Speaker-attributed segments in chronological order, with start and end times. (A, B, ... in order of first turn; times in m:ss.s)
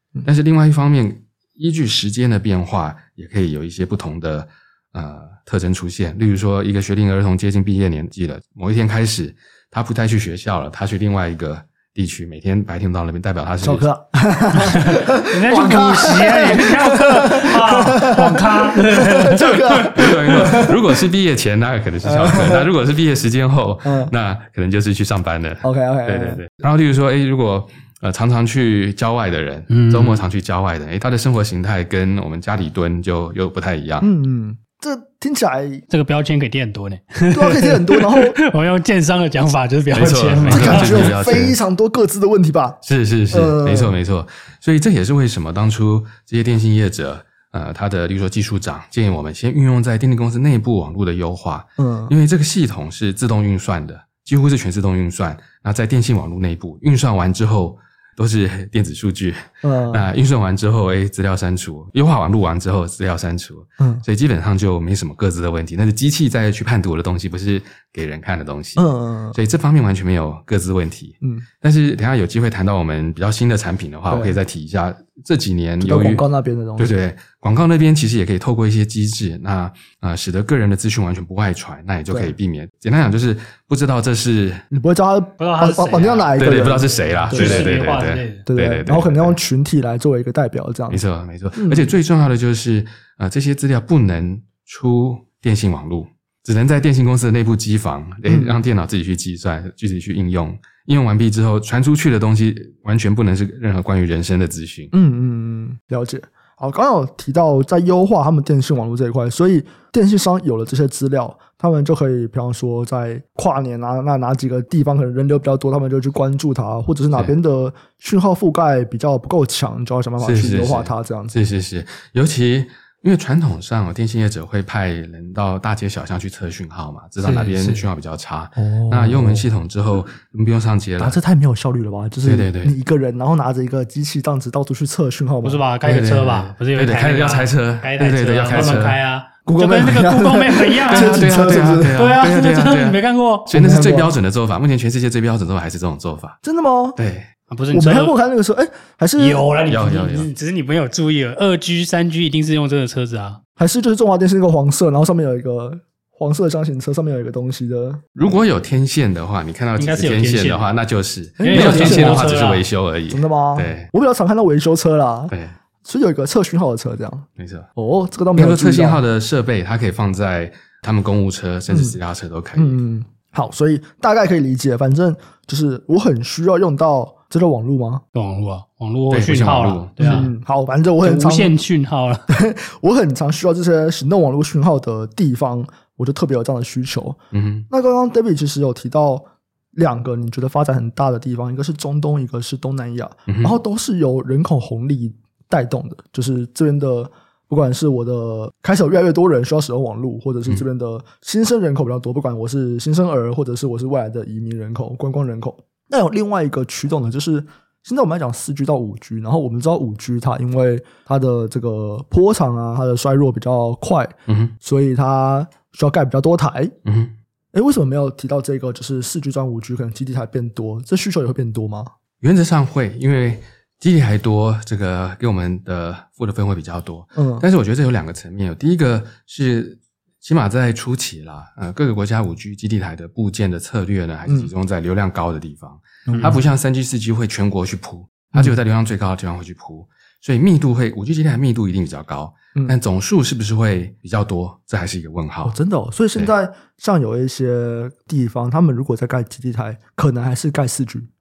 0:00.2-0:13.9 A
0:13.6-0:20.8 B
0:14.8-0:19.9 C
0:19.8-0:34.1 A
0:22.0-0:22.6 B
0:23.8-0:24.1 B
0:25.6-0:26.4 B
0:29.7-0:30.2 C
0:34.0-0:35.8 B
0:35.9-0:41.1 C
0:37.3-0:38.4 B
0:39.9-0:41.6 A
0:40.4-0:42.8 B
0:42.8-1:16.2 A
0:43.3-0:43.9 B
0:51.8-0:52.1 B
0:59.6-1:00.0 B
1:03.8-1:04.0 B
1:08.8-1:09.4 B
1:14.1-1:14.4 B
1:15.8-1:16.9 B
1:16.8-1:24.6 A
1:24.7-1:27.8 B
1:25.4-1:28.4 C
1:26.4-1:29.4 A
1:28.4-1:31.0 B
1:30.9-1:44.9 A
1:31.5-1:31.9 B
1:38.3-1:38.6 B
1:44.9-2:01.3 B
2:00.2-2:11.2 A
2:07.2-2:07.8 C
2:08.6-2:09.5 B
2:11.0-2:15.6 B
2:12.2-2:12.7 A
2:15.4-2:23.5 C
2:15.8-2:19.0 A
2:19.4-2:22.0 B
2:20.9-2:26.4 A
2:23.5-2:24.1 B
2:26.4-2:27.0 B
2:27.0-2:27.3 A
2:27.5-2:28.1 C
2:27.7-2:29.4 B
2:29.2-2:33.4 C
2:29.7-2:30.3 A
2:33.6-2:38.1 B
2:38.2-2:43.9 A
2:39.8-2:40.7 C
2:41.4-2:42.4 B
2:41.4-2:42.6 C
2:43.1-2:45.3 B
2:45.3-2:45.5 A
2:45.8-2:49.0 B
2:47.4-2:47.7 A
2:48.3-2:52.8 A
2:51.7-2:52.0 B
2:52.6-2:58.0 B
2:58.1-3:00.3 C
2:59.1-3:00.3 A
3:00.0-3:01.5 B
3:01.0-3:02.3 C
3:02.3-3:07.2 B
3:07.3-3:07.7 A
3:07.7-3:36.7 B
3:13.3-3:13.6 A
3:34.3-3:34.5 A
3:36.8-3:37.1 A
3:37.5-3:41.9 B
3:42.2-4:05.6 A
3:47.2-3:47.4 B
3:56.1-3:56.4 B
3:56.1-3:56.4 C
4:05.4-4:11.1 B